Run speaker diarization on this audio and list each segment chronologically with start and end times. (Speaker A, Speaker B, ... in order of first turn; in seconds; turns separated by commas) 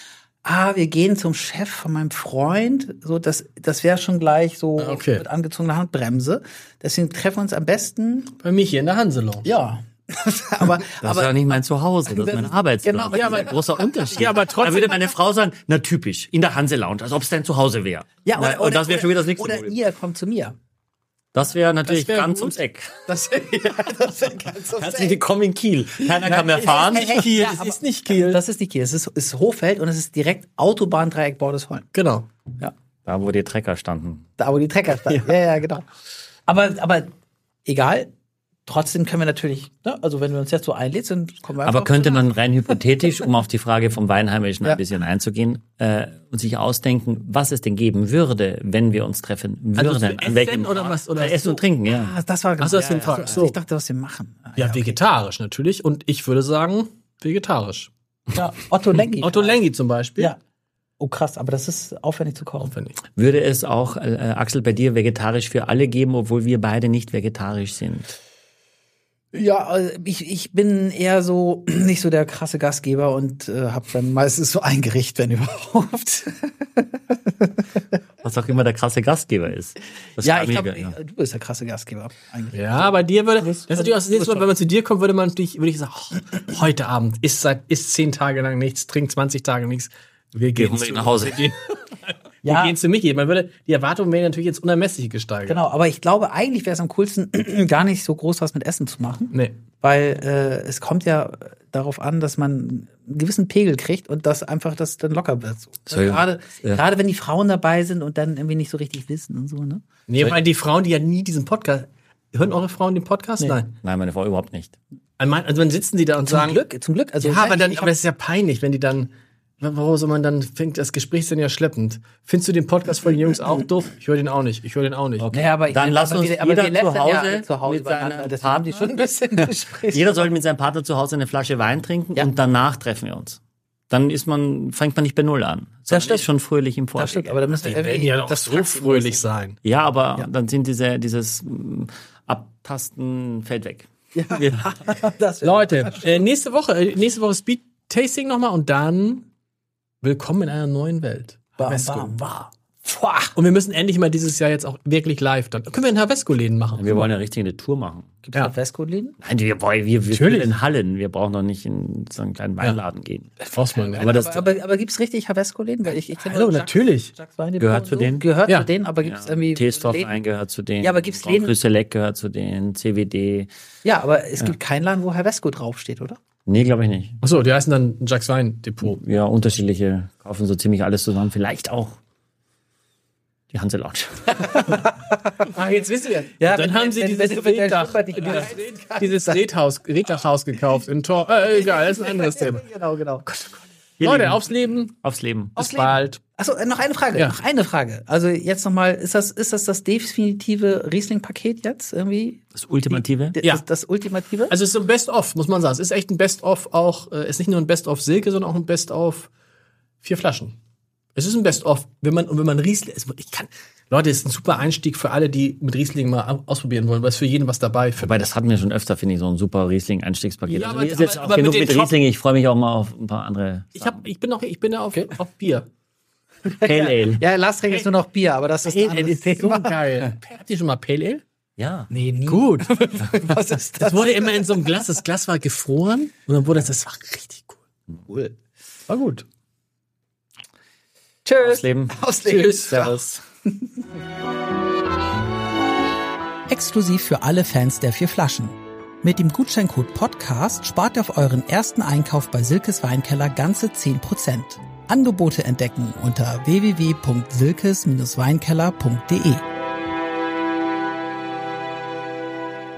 Speaker A: 0.4-8.3, Speaker B: 4.8-5.2, Speaker B: 8.4-9.5, Speaker A: 9.4-11.3, Speaker C: 11.0-19.8, Speaker A: 12.2-13.5, Speaker B: 13.1-15.1, Speaker A: 18.2-20.6, Speaker C: 21.3-23.1, Speaker B: 21.9-22.6, Speaker A: 23.1-25.2, Speaker C: 24.7-27.3, Speaker B: 26.2-28.4, Speaker A: 26.6-31.9, Speaker B: 31.9-32.3, Speaker C: 33.0-34.3, Speaker A: 34.4-35.9, Speaker A: 36.5-37.1, Speaker A: 37.6-38.1, Speaker A: 38.6-42.2, Speaker C: 41.6-52.1, Speaker B: 49.8-51.6, Speaker A: 51.9-55.0, Speaker B: 52.6-53.5, Speaker C: 52.7-53.4, Speaker B: 54.6-57.9, Speaker A: 58.3-59.6, Speaker B: 59.2-60.3, Speaker A: 61.0-62.7, Speaker B: 62.6-63.0, Speaker C: 63.1-68.1, Speaker A: 69.3-77.5, Speaker C: 78.2-81.0, Speaker A: 80.2-84.5, Speaker B: 82.5-95.6, Speaker C: 90.5-91.5, Speaker A: 92.4-92.8, Speaker A: 95.5-109.8, Speaker C: 105.9-106.8, Speaker B: 110.1-113.7, Speaker C: 113.8-114.7, Speaker B: 115.2-116.6, Speaker A: 116.3-117.9, Speaker B: 117.2-125.3, Speaker C: 125.2-133.4, Speaker A: 125.3-130.2, Speaker C: 133.9-137.4, Speaker A: 135.9-136.2, Speaker A: 136.9-139.2, Speaker B: 137.6-139.6, Speaker C: 139.6-145.0, Speaker A: 144.1-146.1, Speaker B: 145.4-149.3, Speaker B: 150.0-152.5, Speaker A: 151.6-152.2, Speaker A: 152.8-153.3, Speaker B: 153.3-157.1, Speaker C: 156.8-158.1, Speaker A: 158.2-159.2, Speaker C: 159.2-164.5, Speaker B: 160.1-160.5, Speaker A: 163.5-170.1, Speaker B: 163.5-164.1, Speaker B: 166.2-167.1, Speaker C: 167.6-168.2, Speaker C: 169.0-173.5, Speaker A: 170.8-171.5, Speaker A: 173.8-176.2, Speaker C: 176.4-177.2, Speaker B: 177.2-179.0, Speaker C: 178.8-182.0, Speaker C: 183.5-184.7, Speaker A: 184.3-185.5, Speaker B: 185.4-192.6, Speaker A: 186.4-189.4, Speaker A: 191.8-193.2, Speaker C: 194.0-194.4, Speaker B: 194.0-194.9, Speaker C: 195.0-195.6, Speaker B: 195.6-196.2, Speaker A: 195.6-204.6, Speaker C: 202.5-203.3, Speaker B: 204.5-209.3, Speaker B: 210.0-210.6, Speaker B: 211.1-218.2, Speaker C: 218.0-224.0, Speaker B: 220.5-222.0, Speaker B: 223.8-225.7, Speaker A: 226.4-230.1, Speaker C: 226.6-227.2, Speaker B: 228.6-231.2, Speaker C: 231.6-231.9, Speaker A: 231.9-234.5, Speaker B: 232.3-233.2, Speaker B: 233.8-237.6, Speaker A: 238.1-238.3, Speaker B: 238.9-239.2, Speaker A: 241.2-242.9, Speaker C: 241.4-243.2, Speaker B: 242.3-242.8, Speaker A: 246.5-259.4